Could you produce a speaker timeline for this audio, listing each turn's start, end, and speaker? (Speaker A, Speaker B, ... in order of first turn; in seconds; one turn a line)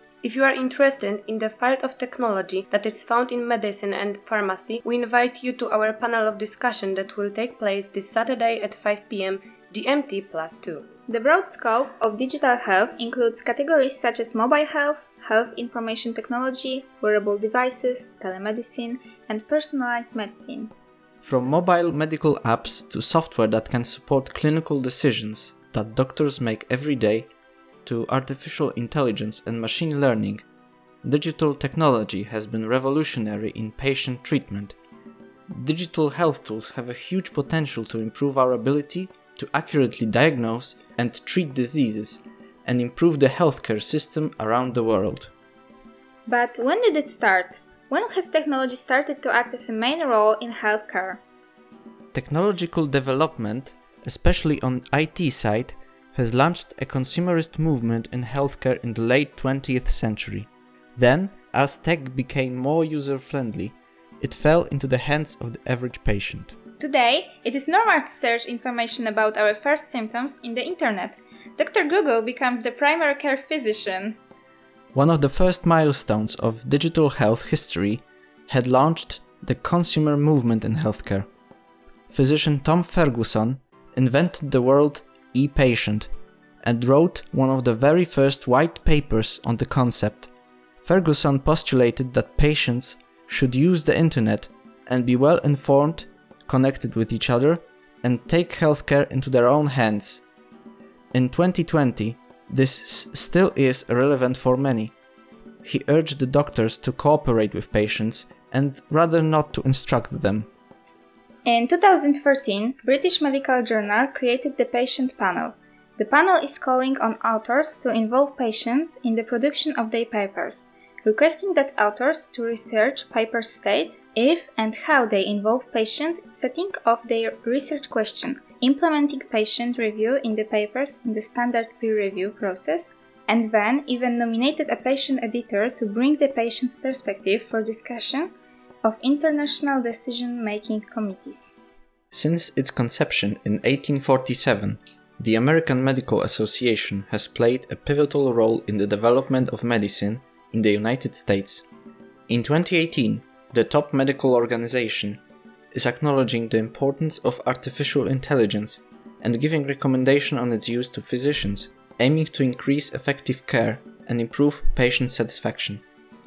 Speaker A: 0.2-10.9
Speaker B: 11.1-20.7
Speaker C: 21.2-27.3
Speaker C: 27.9-30.4
Speaker C: 31.0-34.8
Speaker C: 35.5-45.3
Speaker B: 46.3-51.2
Speaker C: 52.1-66.6
Speaker B: 66.8-74.2
Speaker C: 74.9-81.3
Speaker C: 82.1-86.1
Speaker C: 86.6-90.3
Speaker C: 90.8-100.2
Speaker C: 101.1-104.9
Speaker C: 105.6-110.5
Speaker B: 111.5-141.6
Speaker C: 142.1-151.7
Speaker C: 152.3-155.2
Speaker C: 155.7-165.8